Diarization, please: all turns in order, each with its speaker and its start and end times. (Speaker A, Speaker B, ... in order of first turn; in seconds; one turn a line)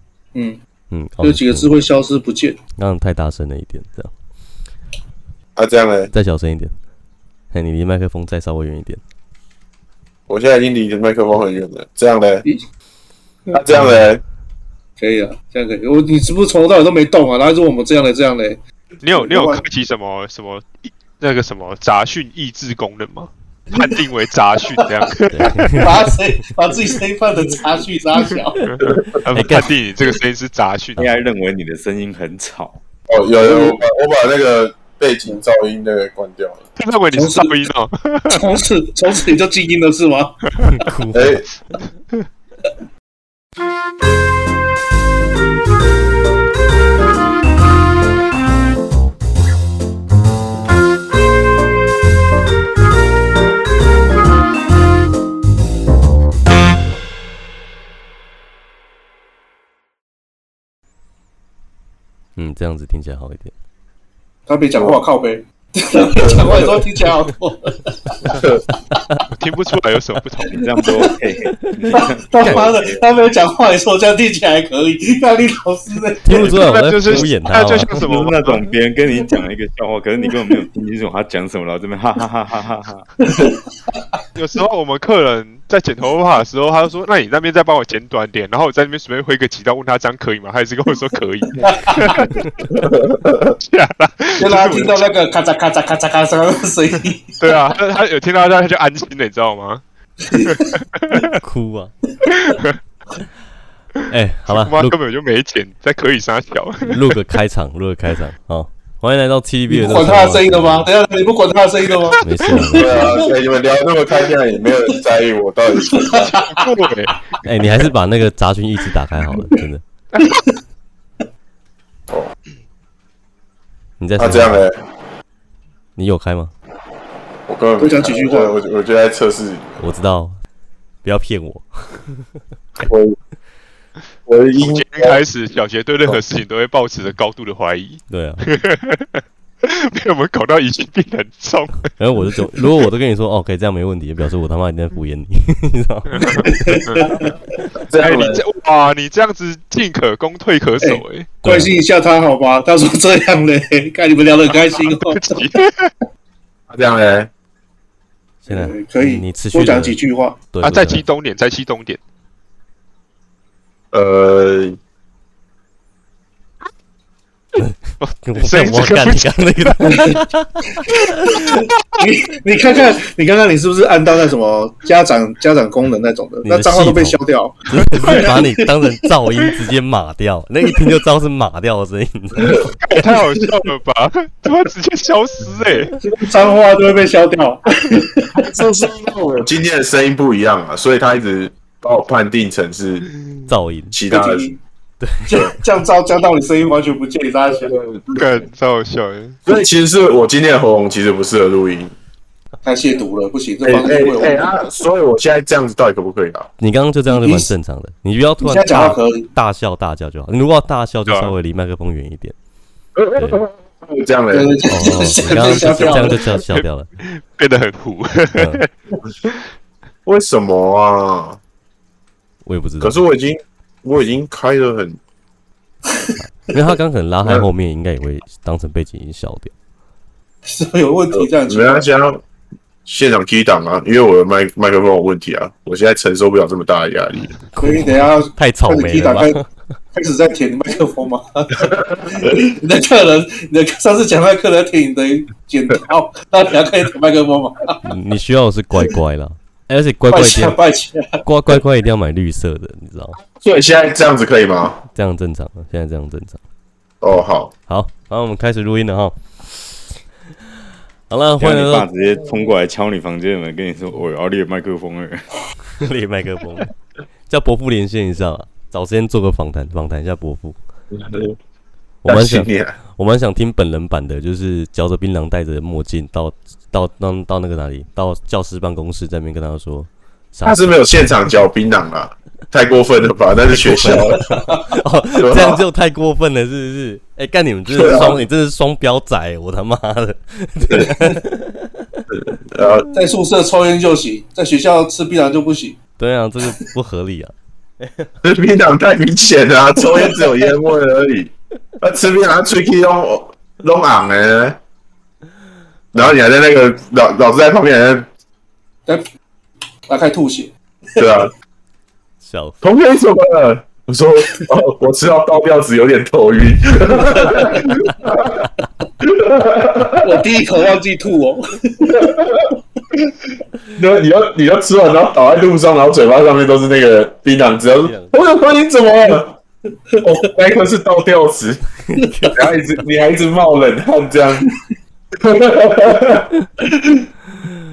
Speaker A: 0.3-0.6
Speaker B: 0.9-1.8
Speaker A: 1.2-2.6
Speaker B: 2.8-4.1
Speaker C: 5.6-6.1
Speaker B: 6.1-6.7
Speaker B: 7.5-9.0
Speaker C: 10.3-12.4
Speaker C: 13.5-14.2
Speaker B: 13.7-14.1
Speaker A: 15.0-18.6
Speaker D: 19.0-26.1
Speaker A: 19.1-19.6
Speaker B: 25.3-25.9
Speaker A: 25.8-28.6
Speaker D: 28.6-31.1
Speaker C: 28.8-29.1
Speaker B: 29.3-29.7
Speaker E: 31.0-32.8
Speaker C: 33.1-36.6
Speaker A: 33.4-33.8
Speaker D: 36.8-38.5
Speaker A: 37.1-37.6
Speaker A: 38.3-40.4
Speaker B: 40.7-41.5
Speaker C: 41.1-41.4
Speaker B: 62.4-63.5
Speaker A: 64.5-68.4
Speaker C: 66.2-66.8
Speaker B: 68.9-69.2
Speaker D: 69.3-70.5
Speaker E: 70.5-73.0
Speaker A: 70.6-71.1
Speaker A: 72.0-76.5
Speaker B: 76.2-77.9
Speaker D: 76.3-78.6
Speaker E: 77.0-77.4
Speaker E: 77.9-83.1
Speaker A: 83.2-84.2
Speaker D: 84.4-92.4
Speaker A: 91.6-92.3
Speaker C: 92.7-93.5
Speaker D: 93.6-95.1
Speaker A: 94.4-97.3
Speaker D: 97.4-101.3
Speaker B: 101.4-101.9
Speaker D: 102.3-102.8
Speaker B: 104.1-105.0
Speaker D: 104.5-107.2
Speaker B: 106.8-110.9
Speaker A: 109.7-113.3
Speaker B: 112.2-113.2
Speaker C: 112.7-116.4
Speaker A: 115.8-116.7
Speaker D: 116.6-117.3
Speaker B: 117.4-119.8
Speaker D: 120.1-120.4
Speaker A: 120.2-120.5
Speaker B: 124.0-124.7
Speaker C: 124.2-124.8
Speaker B: 126.0-126.5
Speaker C: 127.5-129.8
Speaker A: 127.8-128.5
Speaker B: 129.8-130.4
Speaker B: 131.0-132.3
Speaker C: 132.8-133.2
Speaker C: 134.3-135.2
Speaker D: 134.6-141.9
Speaker B: 138.1-138.4
Speaker B: 142.0-146.8
Speaker D: 146.1-147.1
Speaker A: 146.4-147.3
Speaker C: 147.8-148.4
Speaker D: 148.0-151.3
Speaker A: 150.8-155.2
Speaker B: 151.4-151.7
Speaker D: 154.9-155.9
Speaker C: 156.7-157.3
Speaker B: 158.5-160.0
Speaker A: 158.5-160.4
Speaker B: 160.5-161.1
Speaker D: 160.6-162.0
Speaker C: 163.9-164.8
Speaker B: 167.6-171.6
Speaker D: 168.3-169.3
Speaker A: 169.9-170.2
Speaker A: 172.0-178.7
Speaker B: 176.4-182.7
Speaker C: 182.4-182.8
Speaker D: 182.8-185.9
Speaker A: 182.9-183.4
Speaker A: 186.0-188.3
Speaker C: 188.3-193.1
Speaker B: 193.5-194.0
Speaker C: 193.9-194.5
Speaker A: 194.1-194.6
Speaker B: 195.0-195.3
Speaker A: 195.3-197.7
Speaker C: 197.5-198.4
Speaker D: 198.1-199.4
Speaker C: 199.5-201.9
Speaker A: 202.6-204.5
Speaker C: 203.7-206.5
Speaker B: 206.6-212.4
Speaker A: 207.1-207.5
Speaker A: 208.4-209.3
Speaker D: 211.1-211.3
Speaker C: 212.9-214.6
Speaker A: 214.3-216.2
Speaker B: 214.7-216.9
Speaker D: 216.5-218.7
Speaker B: 218.4-218.6
Speaker C: 220.1-221.4
Speaker B: 222.4-223.0
Speaker C: 222.8-225.0
Speaker B: 226.2-229.5
Speaker A: 230.4-231.9
Speaker C: 231.1-232.2
Speaker C: 232.8-237.4
Speaker B: 237.5-239.5
Speaker A: 237.6-239.4
Speaker A: 239.9-247.8
Speaker C: 241.6-242.4
Speaker B: 247.8-250.6
Speaker A: 250.1-251.2
Speaker B: 251.2-253.2
Speaker C: 253.2-254.8
Speaker B: 254.9-256.4
Speaker C: 257.0-257.5
Speaker B: 257.7-259.2
Speaker B: 261.1-261.9
Speaker E: 261.4-265.3
Speaker B: 265.8-266.7
Speaker B: 267.3-270.6
Speaker C: 270.9-271.4
Speaker B: 272.0-281.2
Speaker C: 272.1-272.8
Speaker C: 280.4-284.3
Speaker B: 283.5-292.0
Speaker A: 284.3-284.8
Speaker C: 285.1-285.6
Speaker C: 287.7-288.2
Speaker A: 290.8-291.2
Speaker C: 292.1-292.9
Speaker A: 292.9-295.8
Speaker B: 296.0-298.1
Speaker C: 298.2-304.6
Speaker C: 305.9-308.1
Speaker A: 309.9-311.3
Speaker C: 311.0-311.3
Speaker B: 312.2-312.6
Speaker C: 312.6-318.4
Speaker A: 316.9-317.7
Speaker C: 319.0-320.2
Speaker A: 320.0-322.1
Speaker C: 321.9-322.5
Speaker C: 323.8-329.4
Speaker B: 327.8-328.1
Speaker C: 330.0-331.6
Speaker B: 331.9-332.5
Speaker C: 332.3-334.4
Speaker C: 335.2-337.1